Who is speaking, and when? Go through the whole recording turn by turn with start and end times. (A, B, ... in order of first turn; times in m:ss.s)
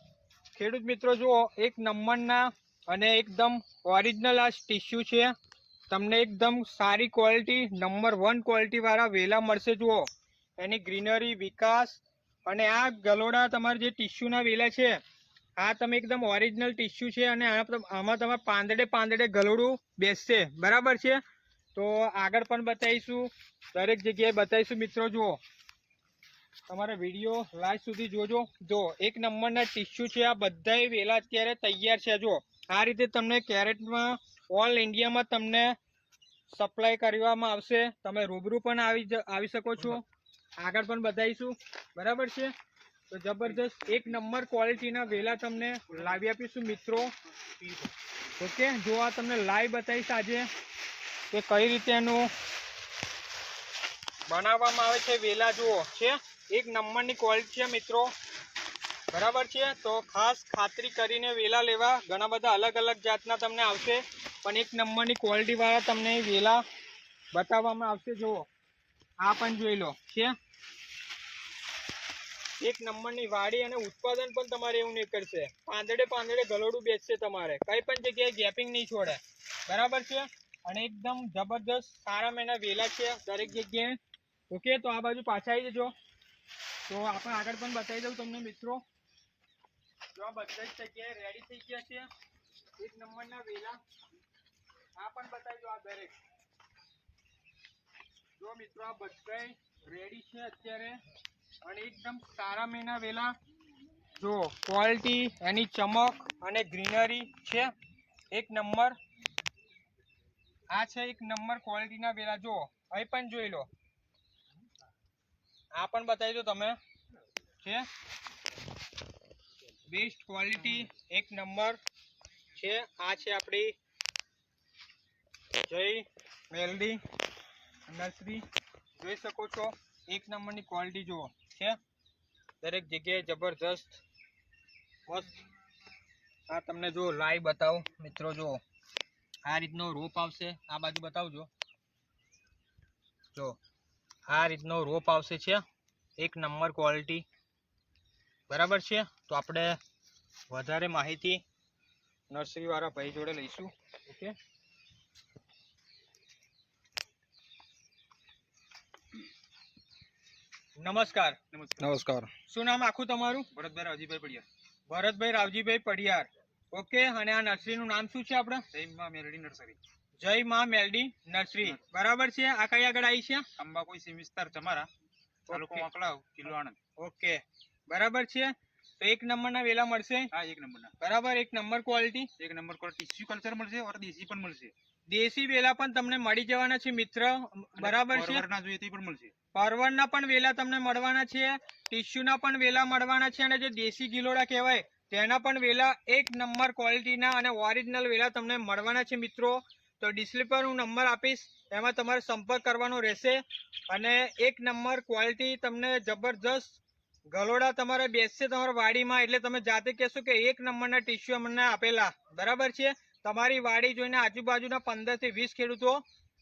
0:00.5-0:05.3 A
0:05.9-0:15.0 A
0:15.6-0:21.2 A
0:21.7-0:25.4 A
0:26.7-0:35.7 A
0:36.5-0:40.0 A
0:40.6-0:42.5 A
0:43.1-0:47.1 A
0:47.5-0:47.9 B
0:48.4-0:50.5 A
0:51.3-0:52.3 A
0:54.3-0:58.1 A
0:59.1-1:06.6 A
1:07.3-1:08.5 A
1:09.2-1:10.3 A
1:12.6-1:24.0 A
1:24.5-1:25.9 A
1:26.9-1:28.8 A
1:30.1-1:32.1 A
1:32.8-1:33.8 A
1:35.0-1:36.2 A
1:38.4-1:41.0 A
1:41.6-1:43.4 A
1:44.2-1:47.7 A
1:48.3-1:49.0 A
1:50.7-1:53.7 A
1:55.7-1:56.8 A
1:57.6-1:57.9 A
1:59.9-2:01.8 A
2:02.5-2:03.8 A
2:05.6-2:07.0 A
2:07.9-2:08.4 A
2:09.0-2:11.8 A
2:12.6-2:14.0 A
2:15.1-2:15.4 A
2:16.5-2:18.6 A
2:19.4-2:21.5 A
2:23.3-2:23.6 A
2:24.2-2:25.6 A
2:26.2-2:27.2 A
2:28.5-2:29.8 A
2:30.5-2:31.4 A
2:32.3-2:34.3 A
2:40.8-2:43.5 A
2:41.5-2:41.9 B
2:43.5-2:44.4 B
2:44.9-2:48.6 A
2:48.7-2:49.8 B
2:50.2-2:53.4 A
2:53.6-2:54.9 B
2:55.5-2:55.8 A
2:55.5-2:56.8 B
2:57.0-3:00.3 A
3:00.3-3:00.9 B
3:01.0-3:02.3 A
3:02.4-3:04.7 B
3:05.1-3:08.4 A
3:07.8-3:09.3 B
3:09.5-3:26.8 A
3:27.3-3:36.0 A